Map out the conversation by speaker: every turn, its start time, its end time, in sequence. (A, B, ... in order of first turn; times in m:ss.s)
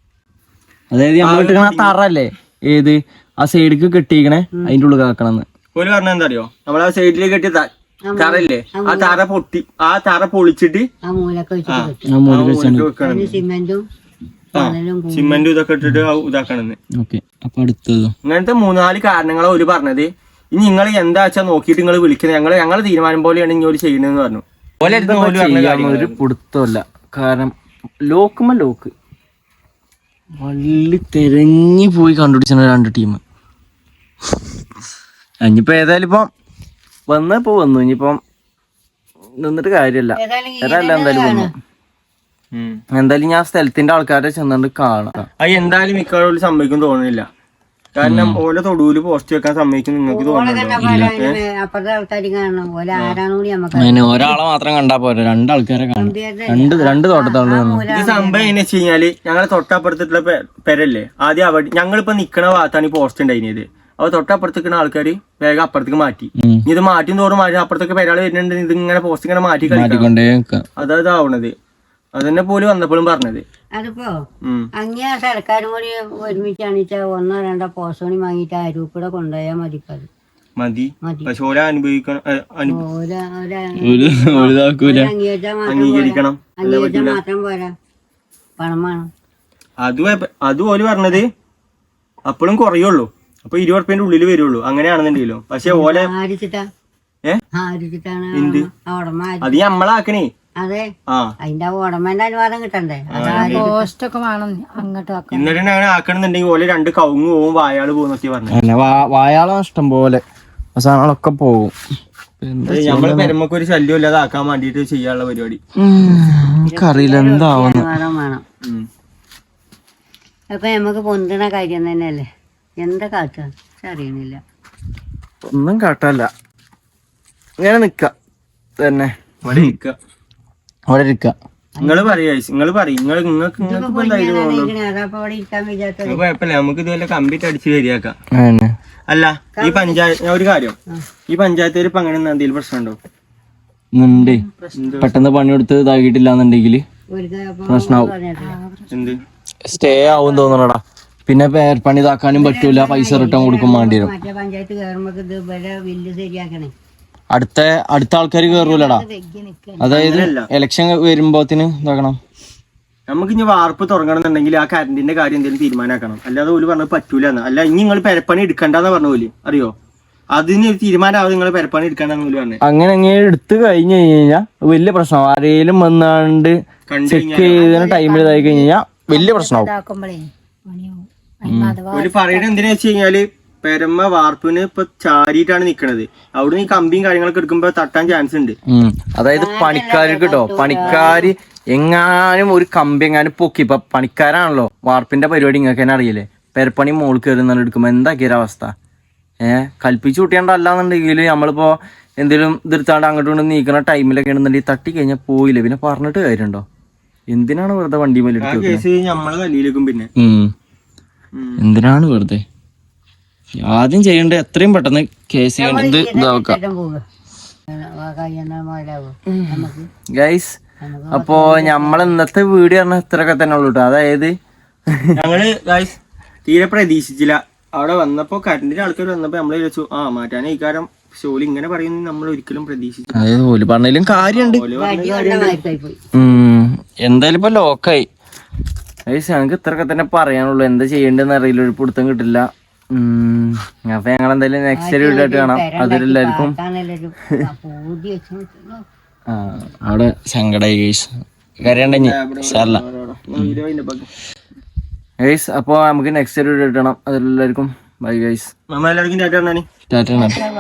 0:00.9-0:05.5 A
0:01.2-0:02.0 B
0:05.8-0:10.9 B
0:08.1-0:09.2 C
0:11.0-0:12.1 C
0:11.7-0:13.4 B
0:12.1-0:12.9 A
0:13.0-0:13.8 C
0:14.5-0:15.5 C
0:14.6-0:16.8 B
0:17.0-0:18.1 A
0:18.2-0:26.2 B
0:24.8-0:28.9 A
0:30.4-0:33.2 A
0:35.4-0:36.3 A
0:37.1-0:38.2 A
0:39.4-0:41.5 A
0:40.2-0:41.5 C
0:42.5-0:42.8 B
0:42.9-0:45.3 A
0:45.4-0:47.3 B
0:48.0-0:51.4 B
0:48.0-0:48.4 A
0:50.1-0:54.4 C
0:50.8-0:51.1 A
0:53.8-0:57.9 A
0:56.0-0:58.6 C
0:57.9-1:10.1 B
1:06.4-1:06.6 A
1:09.7-1:10.6 A
1:10.8-1:11.5 B
1:12.2-1:13.4 B
1:13.8-1:14.1 C
1:14.4-1:14.7 B
1:14.8-1:20.1 C
1:20.6-1:22.8 B
1:21.0-1:21.3 C
1:22.7-1:27.7 C
1:23.8-1:25.1 A
1:25.7-1:27.2 B
1:28.6-1:29.1 C
1:29.8-1:31.3 B
1:32.3-1:36.1 B
1:35.7-1:36.7 C
1:37.6-1:39.6 C
1:38.4-1:38.7 B
1:39.4-1:40.3 B
1:40.6-1:40.9 C
1:41.4-1:43.9 C
1:43.1-1:43.7 B
1:43.3-1:45.5 D
1:45.3-1:48.6 B
1:48.5-1:50.2 A
1:50.8-1:51.8 A
1:52.4-1:53.3 A
1:52.7-1:55.6 B
1:55.8-1:57.9 A
1:56.7-1:58.4 C
2:00.5-2:02.3 C
2:02.8-2:04.4 C
2:05.4-2:06.3 A
2:07.6-2:08.1 A
2:08.8-2:09.7 A
2:09.4-2:10.0 B
2:10.9-2:11.4 A
2:11.8-2:12.2 C
2:11.8-2:14.7 B
2:13.6-2:16.2 C
2:16.1-2:18.2 B
2:18.3-2:18.7 A
2:19.1-2:20.8 B
2:19.6-2:20.0 C
2:21.3-2:23.0 B
2:24.0-2:24.4 A
2:24.2-2:24.4 D
2:24.6-2:25.1 C
2:24.8-2:25.1 B
2:25.0-2:26.8 A
2:27.1-2:28.6 C
2:27.7-2:28.1 A
2:28.5-2:29.1 D
2:28.9-2:29.2 B
2:29.7-2:34.1 A
2:29.8-2:30.7 C
2:32.3-2:36.7 C
2:37.3-2:39.0 A
2:38.5-2:39.8 D
2:39.8-2:42.2 A
2:39.9-2:40.5 B
2:43.1-2:49.7 B
2:50.4-2:52.6 B
2:52.6-2:59.7 A
2:56.9-2:57.7 B
2:57.6-3:02.5 D
3:01.5-3:01.8 A
3:01.9-3:08.6 B
3:08.7-3:18.7 A
3:09.3-3:11.3 C
3:10.7-3:11.2 B
3:19.4-3:26.6 A
3:27.3-3:28.8 A
3:28.4-3:30.1 B
3:30.2-3:30.5 A
3:31.4-3:31.6 B
3:31.6-3:32.4 A
3:33.6-3:36.6 A
3:35.6-3:37.0 C
3:37.7-3:39.9 C
3:40.1-3:40.6 A
3:40.8-3:42.2 C
3:41.1-3:44.4 A
3:44.9-3:45.2 A
3:45.2-3:46.0 B
3:46.5-3:53.3 B
3:53.1-3:54.6 A
3:54.2-3:55.6 B
3:54.7-3:56.0 C
3:56.2-3:58.1 A
3:59.1-4:06.6 A
4:04.7-4:08.8 C
4:09.3-4:11.1 A
4:11.6-4:12.8 A
4:11.6-4:14.1 B
4:15.2-4:18.5 A
4:18.7-4:19.7 B
4:19.9-4:20.4 A